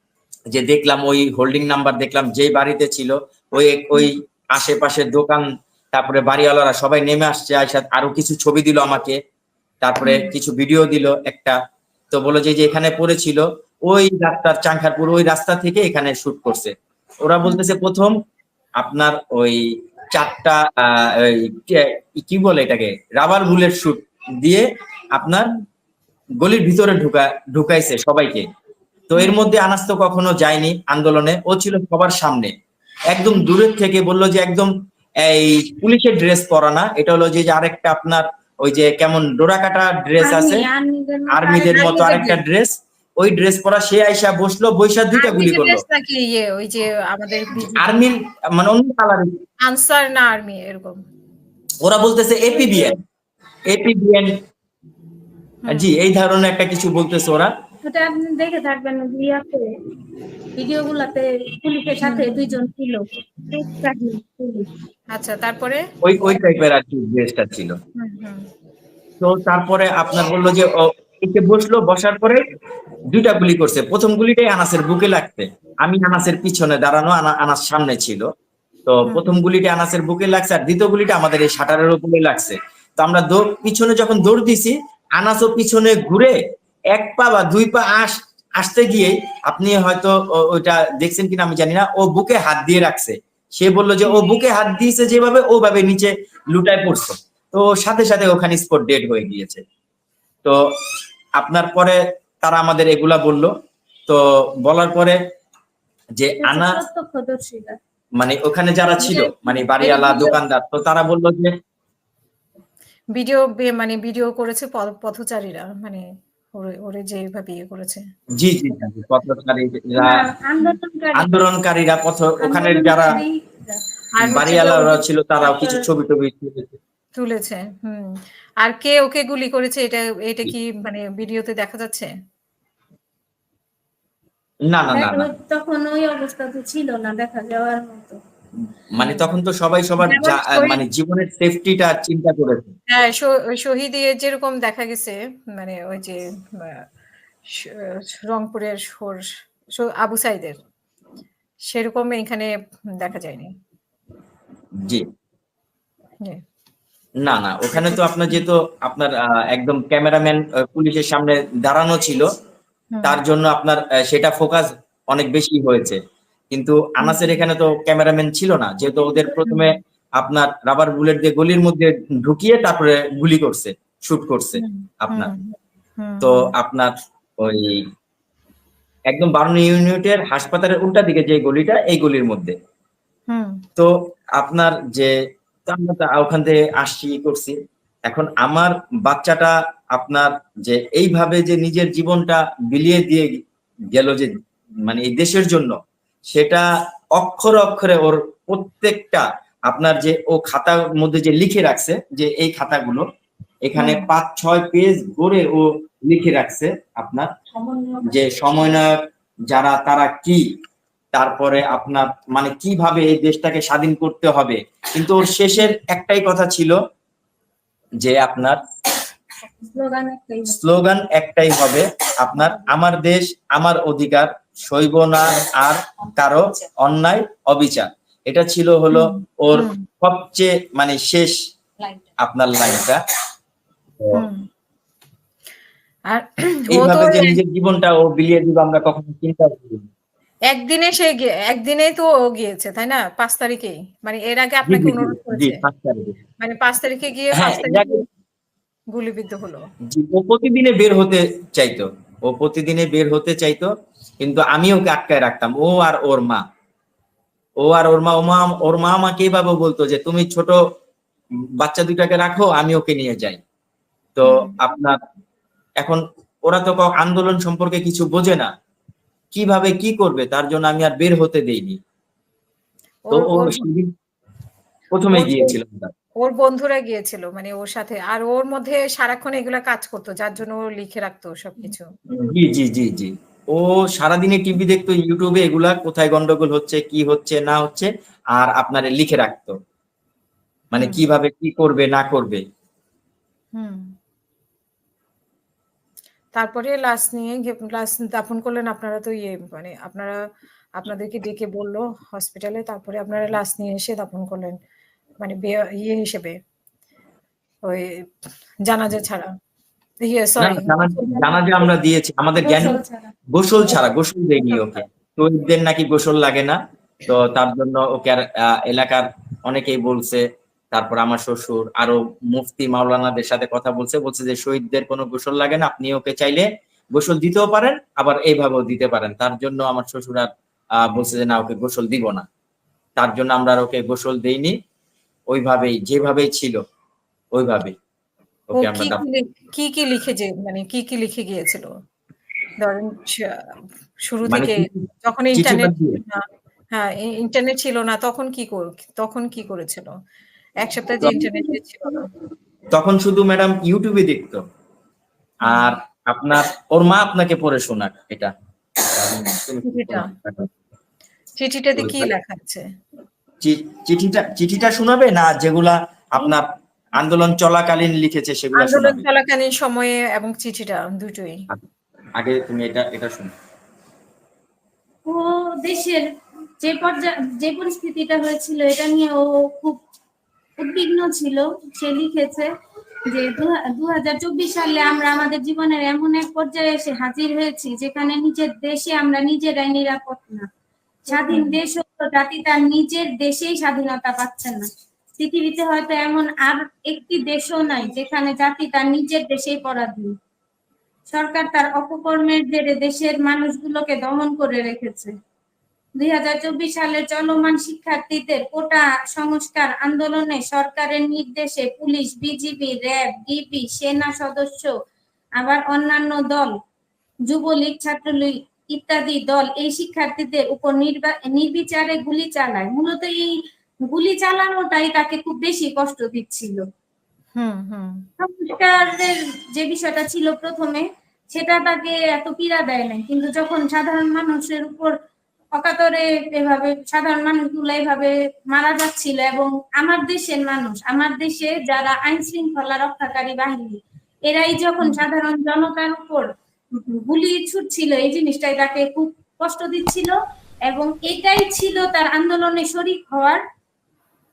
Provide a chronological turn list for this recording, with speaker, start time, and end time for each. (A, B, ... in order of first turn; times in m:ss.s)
0:00.5-0:09.2 A
0:09.8-0:11.6 A
0:12.1-0:16.7 A
0:17.2-0:18.1 A
0:18.8-0:25.5 A
0:26.4-0:28.5 A
0:29.1-0:32.5 A
0:33.1-0:34.7 A
0:35.2-0:40.7 A
0:40.2-0:42.3 B
0:41.3-0:45.8 A
0:41.7-0:42.4 C
0:45.2-0:48.1 C
0:47.7-0:49.3 A
0:49.7-0:51.0 C
0:51.8-0:53.0 A
0:53.7-0:54.3 A
0:55.6-0:56.0 C
0:55.7-0:57.5 A
0:57.8-0:59.7 B
1:00.6-1:04.7 B
1:02.0-1:02.6 C
1:05.1-1:05.8 C
1:06.0-1:07.8 A
1:08.0-1:08.4 C
1:09.2-1:12.4 A
1:13.1-1:18.2 A
1:18.9-1:26.4 A
1:26.9-1:39.6 A
1:41.4-1:43.5 A
1:44.1-1:45.2 A
1:46.2-1:46.8 A
1:46.4-1:47.8 B
1:48.2-1:51.5 A
1:49.0-1:50.2 B
1:49.8-1:50.4 C
1:53.2-1:58.0 C
1:58.4-2:00.2 A
2:00.0-2:01.5 B
2:01.2-2:03.2 A
2:02.4-2:03.8 B
2:04.2-2:05.0 C
2:04.2-2:06.8 A
2:05.4-2:05.9 B
2:07.2-2:12.1 C
2:14.7-2:15.3 A
2:14.9-2:18.2 B
2:18.9-2:22.7 A
2:19.0-2:19.3 C
2:20.0-2:20.8 C
2:22.9-2:26.8 C
2:27.5-2:29.2 C
2:29.8-2:30.6 C
2:31.7-2:33.5 C
2:37.2-2:42.2 A
2:37.7-2:38.4 C
2:42.9-2:43.2 C
2:43.0-2:46.0 A
2:46.5-2:55.3 A
2:47.0-2:47.4 C
2:48.9-2:49.8 C
2:54.6-2:56.5 C
2:56.2-2:57.8 A
2:59.1-3:02.6 A
3:03.3-3:03.6 C
3:03.8-3:05.1 A
3:05.7-3:07.6 A
3:08.1-3:13.4 A
3:13.9-3:14.4 A
3:14.9-3:15.8 A
3:16.3-3:16.6 A
3:17.2-3:23.0 A
3:23.6-3:27.3 A
3:23.8-3:24.1 C
3:28.0-3:29.0 A
3:29.5-3:30.4 A
3:31.1-3:36.8 A
3:38.0-3:38.6 A
3:39.6-3:40.6 B
3:40.5-3:51.4 A
3:48.9-3:49.8 C
3:52.2-3:53.0 A
3:54.1-3:54.5 C
3:56.1-3:57.4 C
3:56.7-3:59.8 A
4:00.5-4:05.6 C
4:04.7-4:06.2 A
4:06.4-4:08.0 C
4:07.3-4:08.0 A
4:08.9-4:09.6 C
4:09.9-4:13.7 A
4:14.2-4:16.4 A
4:17.6-4:20.6 A
4:21.6-4:23.4 A
4:24.2-4:25.0 A
4:24.2-4:24.5 C
4:25.8-4:28.5 A
4:29.3-4:31.8 A
4:33.1-4:33.7 C
4:33.1-4:33.9 A
4:34.9-4:35.9 A
4:35.1-4:35.6 C
4:36.2-4:41.9 C
4:42.2-4:49.5 A
4:50.7-4:52.4 A
4:50.8-4:51.0 C
4:53.6-4:53.9 C
4:56.4-5:00.2 C
5:00.8-5:04.6 C
5:05.2-5:06.4 C
5:07.7-5:07.9 C
5:08.7-5:09.3 C
5:10.0-5:11.7 C
5:10.4-5:12.8 A
5:12.4-5:13.1 B
5:13.3-5:30.3 A
5:30.9-5:32.2 A
5:33.0-5:34.6 A
5:35.3-5:36.6 A
5:37.4-5:37.8 A
5:38.5-5:39.0 A
5:38.6-5:41.7 C
5:42.6-5:43.4 C
5:44.1-5:49.9 C
5:44.3-5:46.0 A
5:50.6-5:52.1 C
5:52.8-5:54.4 A
5:55.4-5:58.3 A
5:55.5-5:55.7 C
5:58.9-6:00.5 A
5:59.6-6:00.1 C
6:01.4-6:02.6 C
6:01.8-6:02.1 A
6:03.4-6:09.1 A
6:08.6-6:11.4 C
6:12.2-6:13.3 A
6:15.1-6:16.0 B
6:16.6-6:19.8 B
6:20.6-6:22.5 B
6:23.1-6:30.5 B
6:31.1-6:40.1 B
6:31.3-6:31.6 C
6:41.1-6:45.1 B
6:46.0-6:54.7 B
6:55.4-6:56.5 B
6:57.3-7:03.3 B
7:03.9-7:06.6 B
7:07.4-7:08.1 C
7:08.2-7:15.0 B
7:15.6-7:30.1 B
7:30.7-7:33.4 B